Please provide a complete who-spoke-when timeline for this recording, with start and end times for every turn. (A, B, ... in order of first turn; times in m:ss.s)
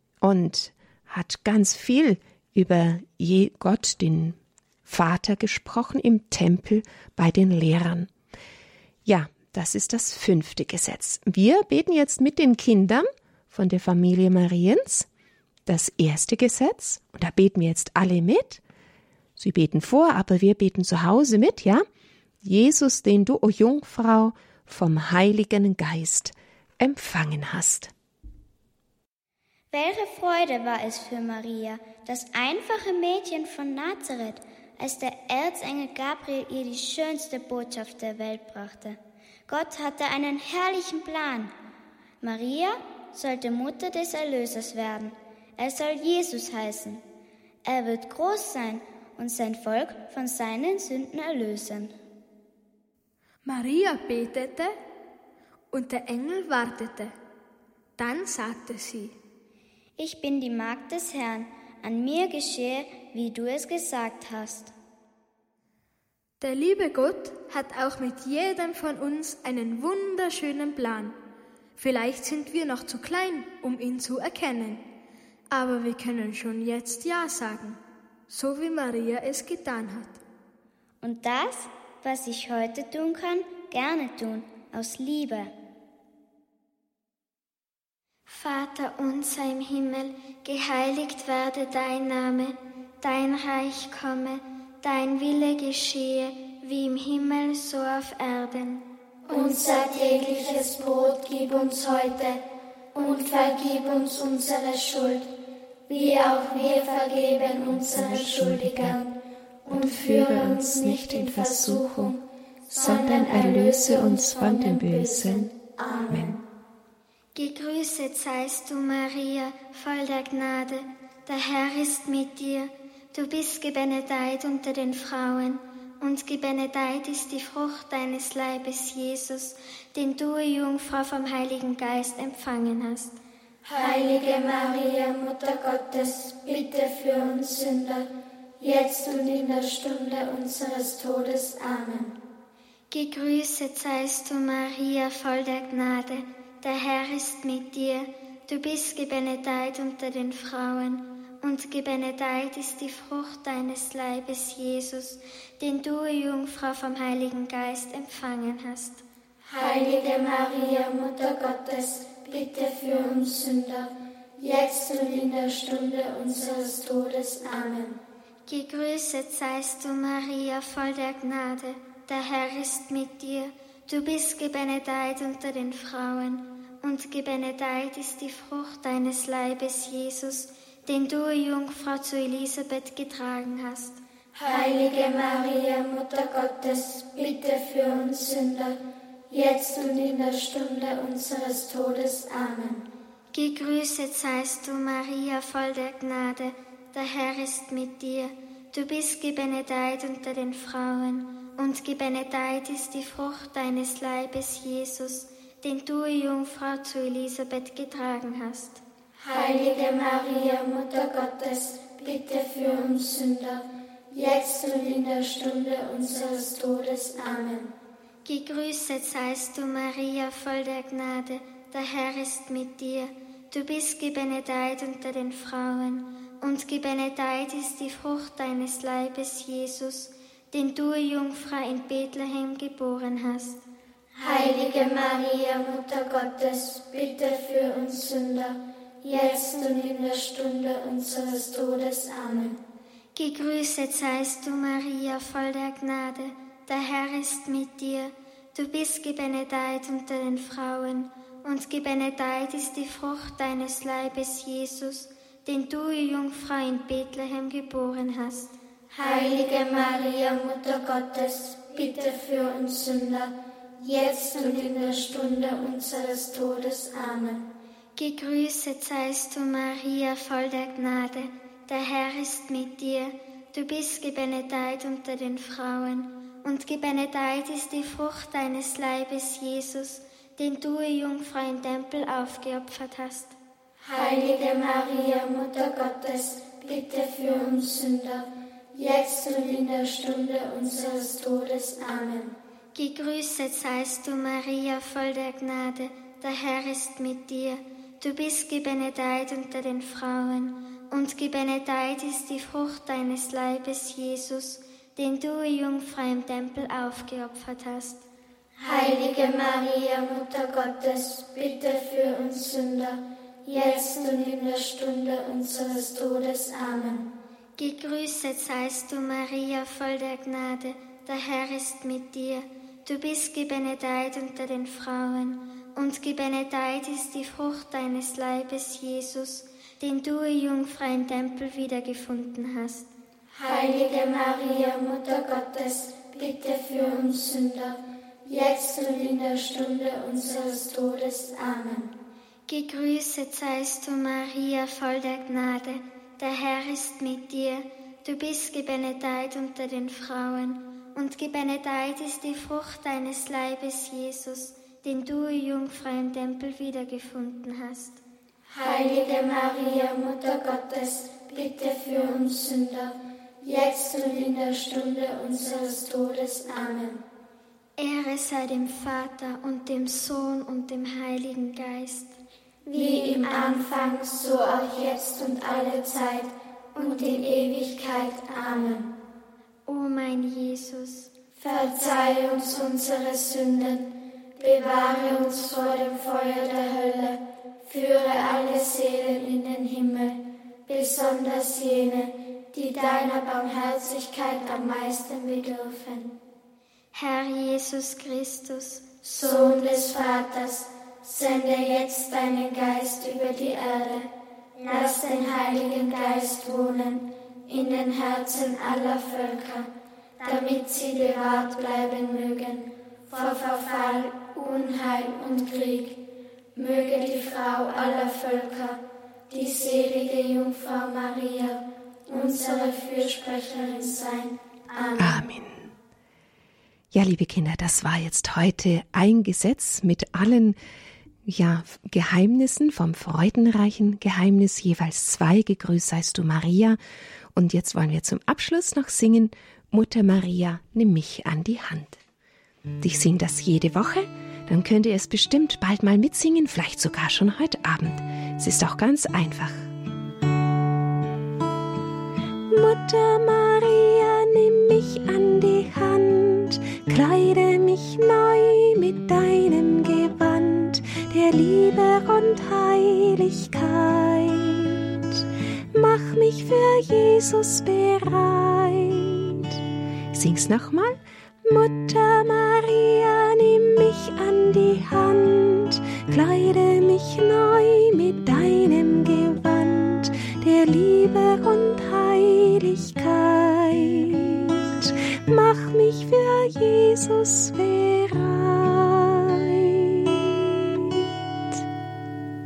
0:00.2-0:08.1 A
0:09.1-0:15.1 A
0:15.7-0:18.6 A
0:19.4-0:21.8 A
0:22.4-0:27.9 A
0:29.7-0:41.5 B
0:42.2-0:47.0 B
0:47.7-0:51.9 B
0:53.4-0:54.7 C
0:55.7-0:57.1 C
0:58.0-0:59.2 C
1:00.0-1:04.7 B
1:06.4-1:11.2 C
1:11.8-1:14.8 C
1:15.5-1:20.2 C
1:21.0-1:25.5 B
1:28.3-1:38.8 D
1:39.3-1:42.4 E
1:43.0-1:45.3 E
1:45.9-1:49.1 E
1:47.9-1:49.0 A
1:49.6-1:56.4 E
1:49.7-1:52.2 A
1:52.8-1:55.5 A
1:56.1-1:56.4 A
1:57.3-2:13.2 D
2:13.6-2:18.1 E
2:18.6-2:22.1 E
2:22.9-2:39.0 D
2:39.5-2:48.0 E
2:48.5-3:04.0 D
3:04.3-3:08.8 E
3:09.3-3:12.8 E
3:13.3-3:28.8 D
3:29.2-3:37.7 E
3:38.2-3:53.6 D
3:54.2-4:02.6 E
4:03.2-4:18.5 D
4:18.9-4:27.5 E
4:28.0-4:43.4 D
4:43.8-4:52.4 E
4:52.7-5:08.0 D
5:08.6-5:17.1 E
5:17.6-5:32.9 D
5:33.3-5:41.9 E
5:42.5-5:58.0 D
5:58.5-6:07.0 E
6:07.8-6:12.2 D
6:12.7-6:13.6 D
6:12.7-6:18.9 E
6:16.8-6:17.1 D
6:19.7-6:21.1 D
6:21.4-6:36.2 E
6:36.9-6:38.8 D
6:39.0-6:49.7 E
6:50.2-6:56.0 E
6:56.6-7:05.2 E
7:05.0-7:05.7 A
7:06.9-7:10.6 A
7:11.3-7:16.8 A
7:17.4-7:22.0 A
7:22.8-7:29.6 A
7:32.5-7:45.2 A
7:45.7-7:49.6 A
7:50.1-8:10.9 A